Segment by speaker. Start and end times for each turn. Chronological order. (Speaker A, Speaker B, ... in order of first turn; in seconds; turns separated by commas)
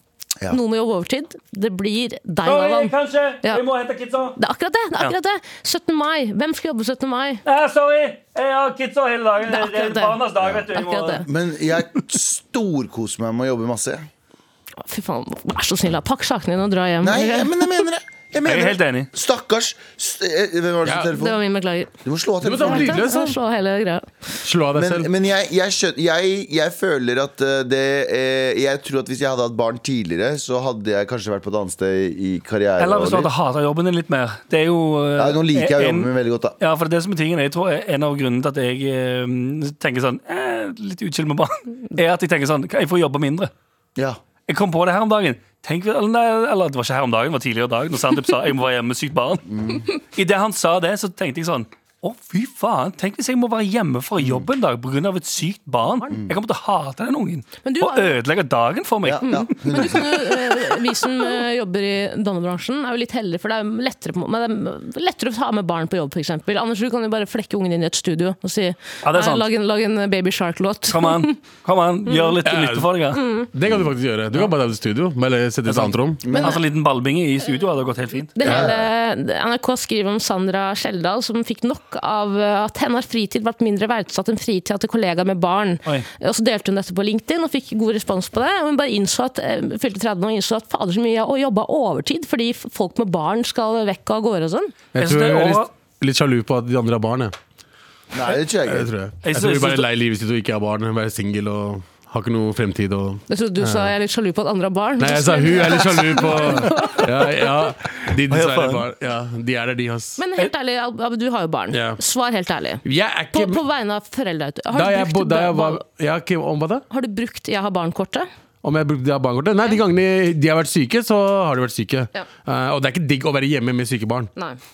Speaker A: 0.5-3.6, Speaker B: 2.4-4.4, Speaker A: 4.4-7.4, Speaker B: 7.5-11.2, Speaker A: 9.5-10.2, Speaker C: 10.4-10.7, Speaker A: 10.7-11.2, Speaker C: 11.2-14.1, Speaker A: 14.8-17.8, Speaker C: 17.0-21.4, Speaker B: 18.4-19.1, Speaker D: 20.8-21.1, Speaker A: 21.1-21.9, Speaker C: 22.0-23.0, Speaker D: 22.4-23.4, Speaker A: 22.6-24.1, Speaker D: 24.4-25.1, Speaker C: 24.7-33.3, Speaker B: 32.8-43.5, Speaker C: 35.2-36.5, Speaker B: 44.5-49.5, Speaker C: 49.5-49.9, Speaker B: 50.0-59.8, Speaker C: 54.2-54.5, Speaker C: 56.1-56.4, Speaker A: 57.6-58.1, Speaker C: 59.0-60.4, Speaker A: 59.2-71.3, Speaker B: 69.0-69.5, Speaker B: 70.9-73.2, Speaker A: 72.1-72.3, Speaker D: 72.4-72.9, Speaker A: 73.1-73.5, Speaker D: 73.5-76.2, Speaker B: 75.7-78.4, Speaker C: 76.2-76.6, Speaker A: 76.3-76.6, Speaker A: 78.3-94.7, Speaker D: 78.4-78.7, Speaker C: 78.4-78.9, Speaker D: 94.9-97.3, Speaker B: 95.0-95.7, Speaker C: 98.1-98.9, Speaker D: 98.7-103.9, Speaker B: 99.2-99.9, Speaker A: 103.3-107.4, Speaker D: 105.0-110.2, Speaker B: 108.3-108.8, Speaker A: 110.2-115.8, Speaker D: 111.7-112.0, Speaker D: 112.8-113.6, Speaker D: 114.7-116.8, Speaker A: 116.9-118.3, Speaker D: 118.6-124.3